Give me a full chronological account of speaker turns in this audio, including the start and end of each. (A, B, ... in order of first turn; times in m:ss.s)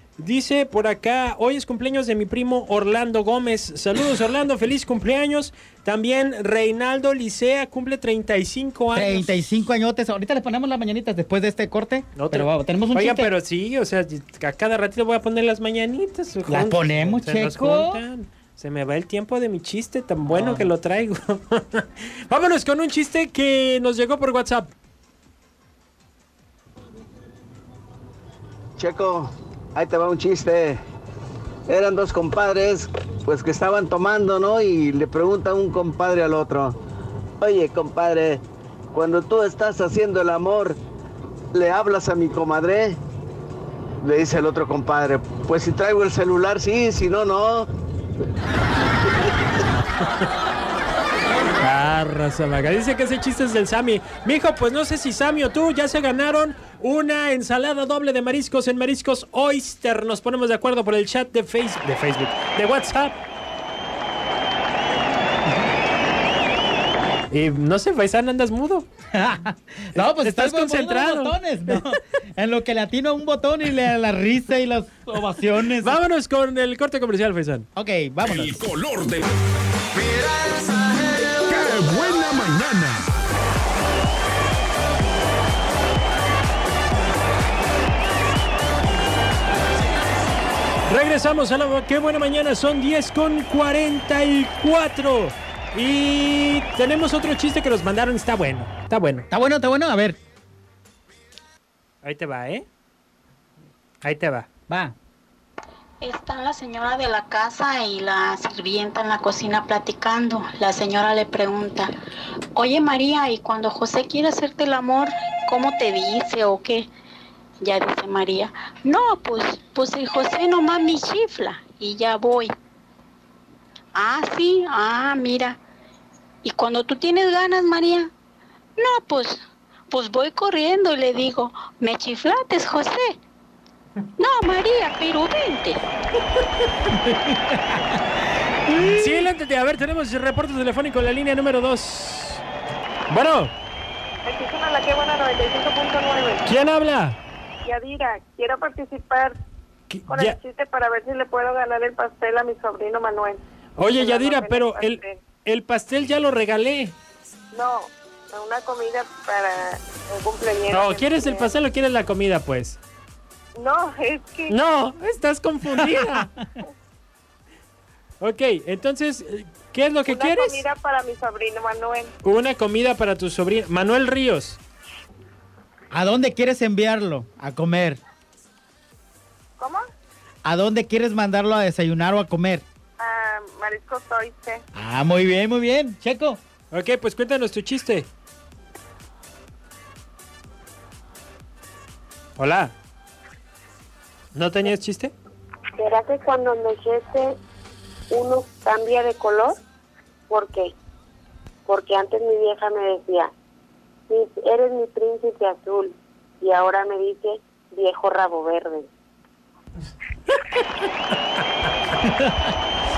0:00.2-0:09.4 A
0:08.9-0:13.3 B
0:12.1-0:24.7 A
0:16.5-0:18.0 B
0:20.3-0:20.7 B
0:28.8-0:30.8 C
0:31.7-0:36.8 C
0:37.4-0:40.8 C
0:41.5-0:43.0 C
0:44.0-0:47.7 C
0:51.6-1:03.2 A
1:07.3-1:08.9 A
1:09.1-1:16.0 B
1:10.0-1:11.8 A
1:15.7-1:17.7 A
1:17.8-1:18.6 B
1:18.2-1:19.3 D
1:21.5-1:23.1 D
1:30.9-1:39.3 A
1:39.3-1:40.2 B
1:42.0-1:42.7 A
1:44.0-1:44.5 A
1:44.7-1:45.0 B
1:46.0-1:52.0 E
1:52.5-1:56.9 E
1:57.6-2:02.5 E
2:04.0-2:05.6 E
2:06.4-2:08.1 E
2:08.8-2:13.2 E
2:14.2-2:15.8 E
2:17.0-2:17.8 B
2:18.7-2:19.3 B
2:18.8-2:22.4 A
2:23.1-2:23.5 A
2:24.2-2:26.4 F
2:26.4-2:27.2 A
2:27.6-2:29.4 F
2:29.9-2:30.4 A
2:30.1-2:35.2 F
2:33.8-2:37.0 A
2:37.5-2:41.5 F
2:40.7-2:42.8 A
2:43.6-2:44.6 F
2:44.5-2:46.3 A
2:48.2-2:50.6 A
2:50.1-2:52.1 F
2:52.2-2:54.6 A
2:55.9-2:58.0 B
3:00.5-3:02.6 B
3:03.0-3:04.6 F
3:04.8-3:06.4 B
3:06.7-3:08.1 A
3:12.4-3:12.7 A
3:14.3-3:15.1 A
3:15.8-3:17.4 F
3:18.1-3:19.6 F
3:20.3-3:20.7 F
3:21.7-3:23.3 F
3:24.1-3:28.9 F
3:30.3-3:30.9 A
3:32.0-3:32.5 B